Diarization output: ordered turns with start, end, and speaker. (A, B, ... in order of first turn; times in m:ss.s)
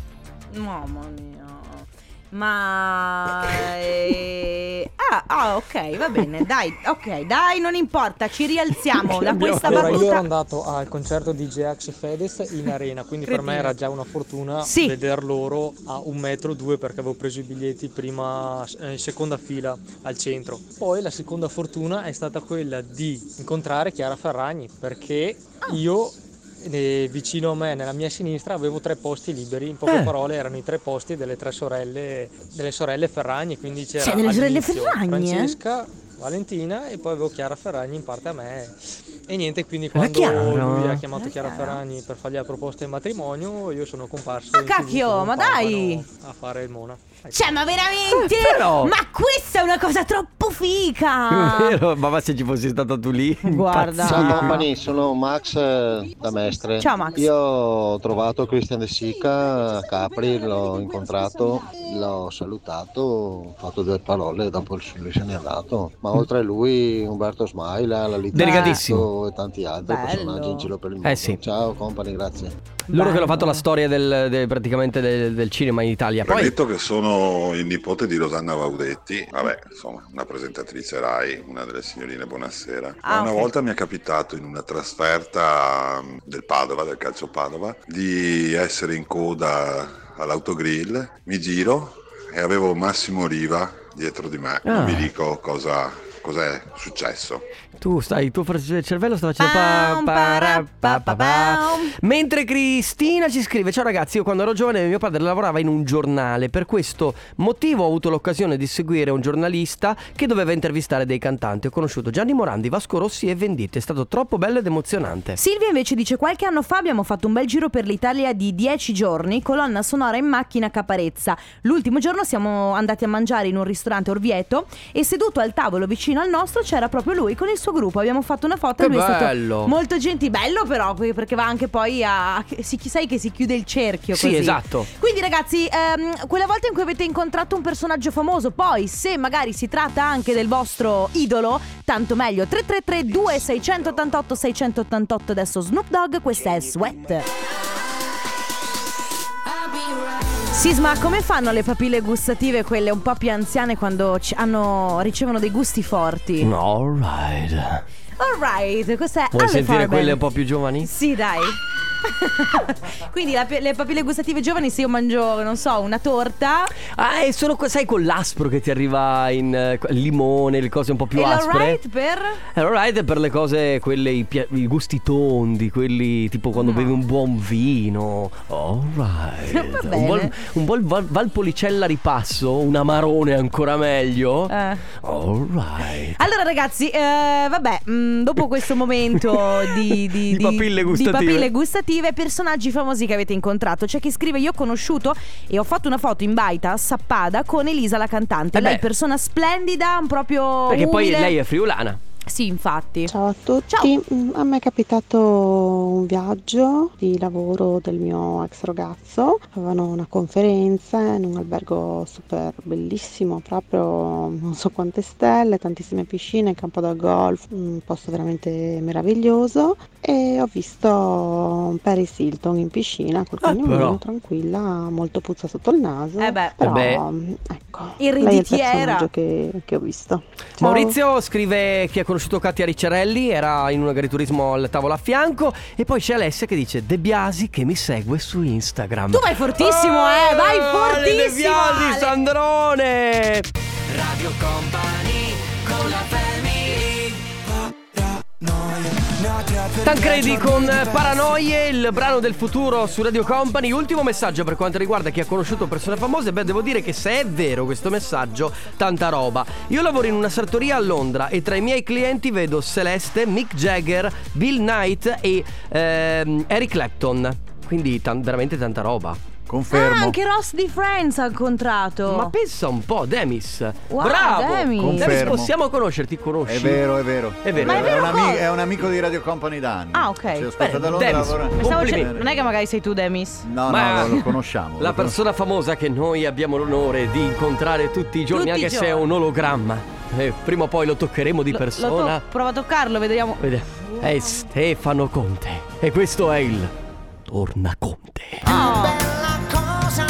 0:00.5-0:10.2 A
0:08.9-0:10.2 B
0:09.6-0:38.7 C
0:13.2-0:13.8 A
0:14.6-0:15.0 A
0:29.8-0:30.1 B
0:34.0-0:35.6 A
0:39.3-0:47.5 C
0:39.9-0:41.0 B
0:41.1-0:41.8 A
0:44.5-0:46.0 A
0:47.3-0:51.8 A
0:48.1-0:48.9 B
0:51.3-0:54.7 B
0:53.4-0:54.6 A
0:54.0-1:12.5 D
0:56.8-0:57.2 A
1:08.3-1:08.8 A
1:08.3-1:09.1 B
1:09.8-1:10.7 A
1:11.0-1:11.4 B
1:12.9-1:16.6 B
1:12.9-1:13.6 A
1:16.2-1:37.4 E
1:23.0-1:23.5 A
1:34.6-1:35.1 B
1:37.8-1:55.4 B
1:39.4-1:42.0 A
1:55.4-2:27.3 A
2:08.8-2:09.7 B
2:14.1-2:14.9 B
2:30.5-2:36.5 A
2:36.4-2:37.8 B
2:38.2-2:40.2 A
2:39.3-2:40.9 B
2:40.8-2:46.7 A
2:46.8-2:51.8 B
2:51.1-2:52.4 A
2:52.5-3:06.2 B
2:56.5-2:57.0 A
2:59.5-3:00.4 A
3:04.5-3:04.8 A
3:06.2-3:21.4 A
3:09.2-3:11.5 B
3:18.5-3:18.8 B
3:20.7-3:22.0 B
3:22.2-3:23.1 A
3:23.1-3:51.0 F
3:23.7-3:23.9 A
3:43.4-3:44.0 B
3:46.2-3:46.6 A
3:46.6-3:47.0 B
3:48.0-3:49.1 A
3:50.6-4:07.2 B
3:59.1-4:02.1 A
4:09.8-4:29.2 B
4:29.5-4:30.2 G
4:29.7-4:32.3 A
4:32.0-4:36.8 B
4:33.9-4:35.4 A
4:34.8-4:35.5 G
4:36.4-4:42.2 G
4:37.4-4:38.1 B
4:37.6-4:38.5 A
4:39.9-4:40.5 A
4:40.6-4:42.1 B
4:41.5-4:44.1 A
4:43.4-4:45.2 G
4:43.7-4:44.2 B
4:44.8-4:52.2 B
4:48.3-4:49.1 A
4:51.5-4:53.4 A
4:53.4-4:56.7 B
4:57.3-4:58.5 B
4:58.4-4:59.1 A